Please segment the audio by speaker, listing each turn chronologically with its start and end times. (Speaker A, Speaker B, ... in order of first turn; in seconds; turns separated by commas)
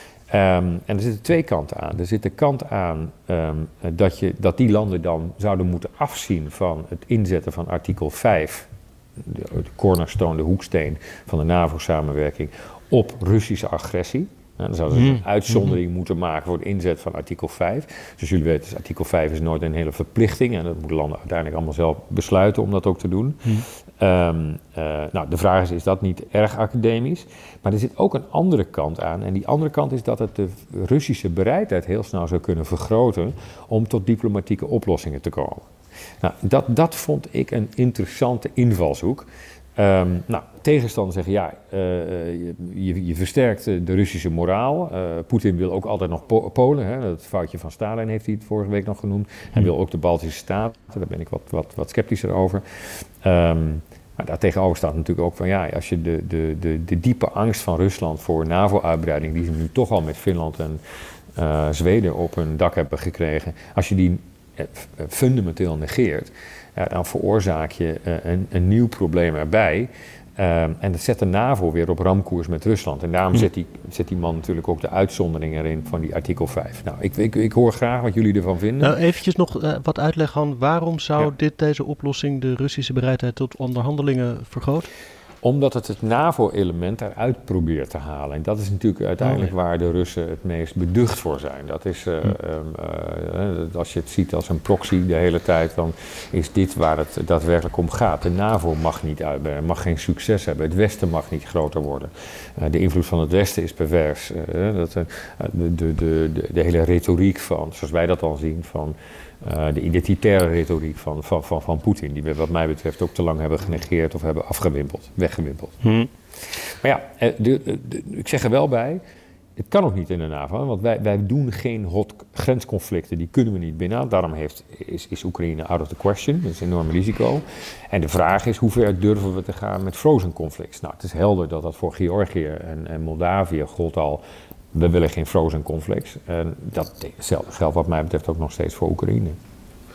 Speaker A: 0.3-35.7, Speaker B: 14.9-15.7, Speaker A: 36.2-60.8, Speaker A: 61.4-78.9, Speaker B: 78.8-84.9, Speaker A: 85.4-115.8, Speaker B: 89.2-89.5, Speaker B: 115.8-116.1, Speaker A: 116.5-119.0, Speaker A: 119.6-134.2, Speaker A: 134.7-139.4